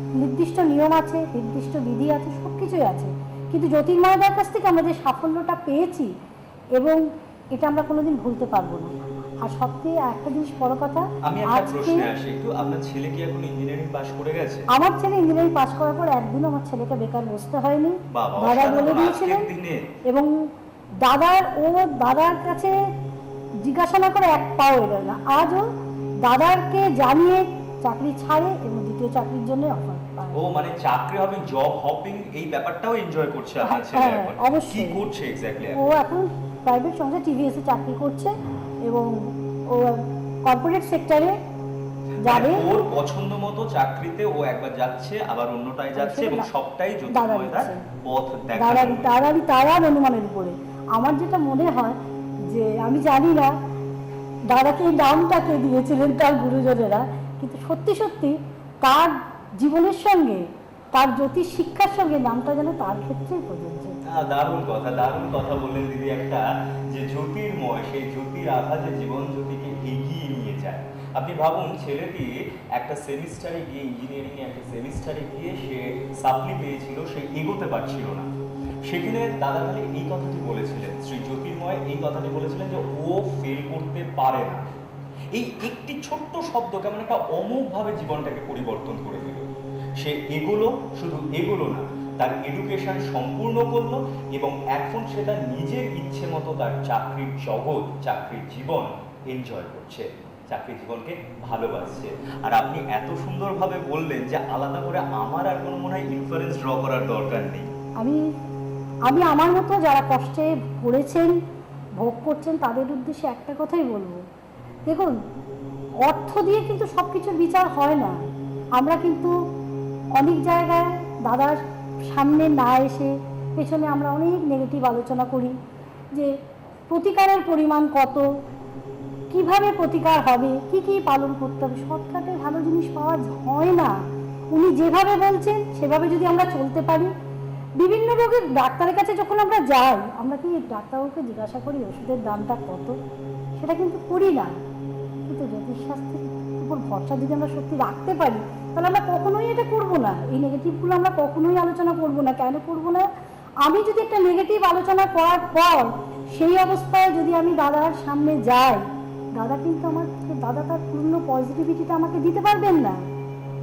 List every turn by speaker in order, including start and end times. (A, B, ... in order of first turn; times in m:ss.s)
0:00.2-0:06.1 A
0:07.5-0:08.9 A
0:09.4-0:12.1 A
0:11.2-0:14.7 B
0:14.7-0:19.5 A
0:18.1-0:19.9 B
0:21.0-0:22.7 A
0:23.6-0:25.6 A
0:26.2-0:30.4 A
0:30.3-0:35.8 B
0:33.6-0:35.0 A
0:35.7-0:38.3 A
0:38.8-0:39.1 A
0:39.7-0:41.3 A
0:42.2-0:49.2 B
0:42.2-0:42.7 A
0:46.0-0:46.5 A
0:47.1-0:47.8 A
0:48.6-0:52.0 A
0:52.5-0:53.5 A
0:54.5-1:00.4 A
1:00.9-1:04.0 A
1:04.0-1:18.3 B
1:18.9-1:24.6 B
1:25.3-1:47.7 B
1:49.0-1:51.3 A
1:52.0-1:54.2 A
1:54.8-1:55.2 A
1:56.0-1:58.2 A
1:58.8-1:59.3 A
2:00.1-2:05.6 A
2:06.9-2:08.2 A
2:09.3-2:13.9 A
2:14.5-2:17.1 A
2:17.8-2:22.9 A
2:23.6-2:24.5 A
2:25.2-2:33.1 A
2:33.6-2:38.8 A
2:39.3-2:43.0 A